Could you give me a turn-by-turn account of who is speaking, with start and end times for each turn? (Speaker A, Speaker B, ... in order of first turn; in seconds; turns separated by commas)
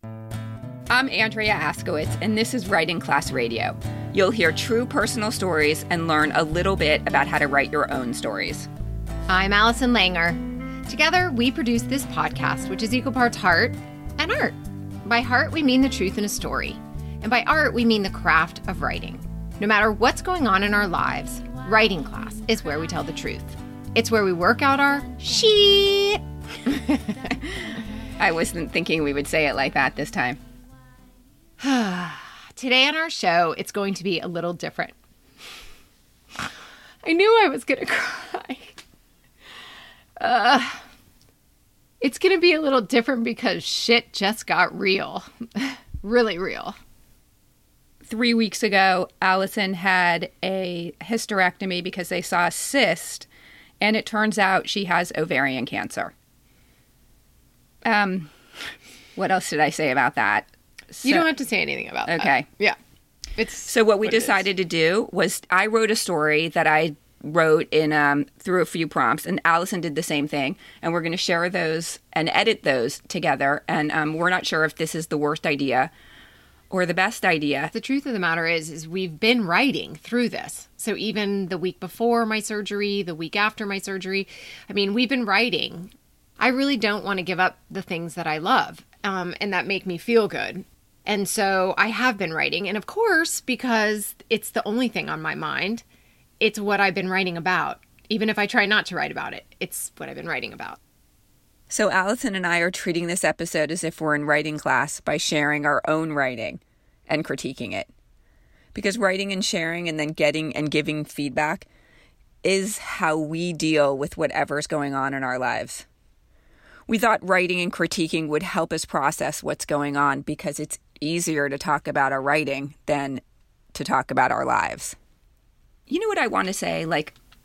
Speaker A: 0.9-8.7, Speaker B: 9.3-27.3, Speaker A: 28.2-30.4, Speaker B: 31.6-35.0, Speaker B: 37.0-38.8, Speaker B: 40.2-40.9, Speaker B: 42.0-46.8, Speaker A: 48.0-53.3, Speaker A: 53.8-56.1, Speaker A: 57.9-61.3, Speaker B: 61.0-62.8, Speaker A: 62.1-62.5, Speaker B: 63.4-64.5, Speaker A: 63.7-75.9, Speaker A: 76.7-77.7, Speaker B: 77.7-95.8, Speaker B: 96.4-100.8, Speaker A: 101.7-107.9, Speaker A: 108.7-111.7, Speaker A: 112.4-115.9, Speaker A: 116.9-123.2, Speaker A: 123.7-125.0, Speaker A: 125.9-127.2